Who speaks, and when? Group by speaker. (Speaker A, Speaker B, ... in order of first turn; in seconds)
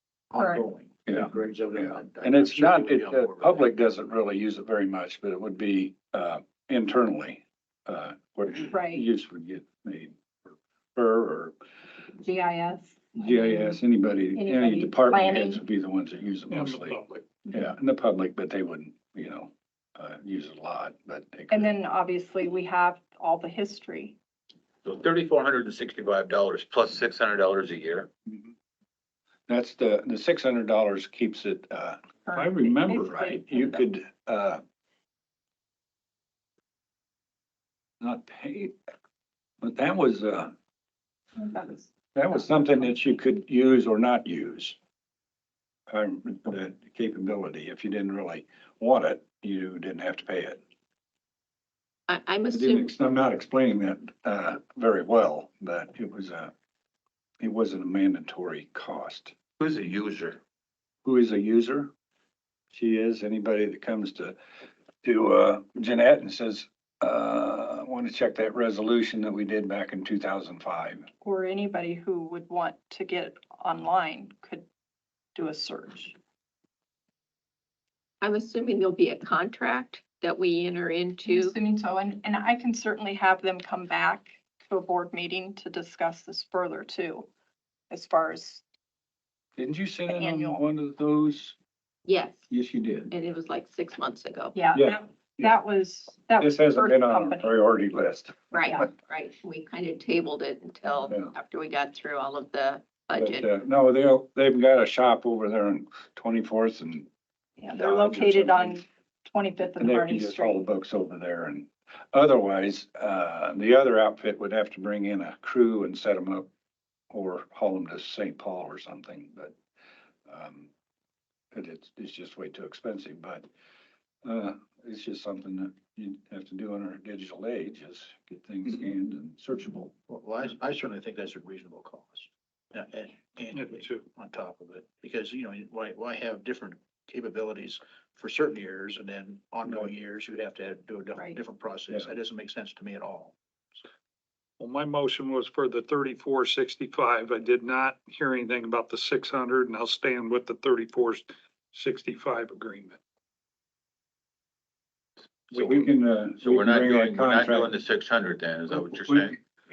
Speaker A: 0.3-3.7, 130.1-143.4
Speaker B: 0.4-0.6, 8.7-9.1, 12.2-13.8, 14.3-15.6, 21.5-24.2, 32.3-33.8, 41.4-41.9, 71.2-74.7, 75.3-76.2, 81.2-87.3, 87.9-88.6, 90.1-90.6, 94.5-97.5, 107.6-110.6
Speaker C: 1.1-11.5, 13.2-17.0, 17.5-21.7, 29.5-34.6, 38.0-38.8, 39.6-40.5, 42.1-44.8, 45.9-50.6, 52.5-56.5, 57.4-59.3, 61.0-61.9, 62.7-64.4, 65.0-71.1, 89.6-91.6, 92.5-93.1, 94.7-95.5, 96.4-98.9, 101.1-101.3, 103.2-107.1, 107.8-108.8, 109.8-116.5, 117.1-119.5, 120.3-120.7, 121.5-123.5, 124.2-129.9, 155.5-157.7
Speaker D: 16.5-17.3, 133.5-134.1, 144.6-153.0
Speaker E: 24.8-28.1, 59.6-60.4, 156.4-159.3
Speaker F: 52.1-52.9, 78.2-81.6, 92.1-92.5, 93.1-94.6, 98.5-103.5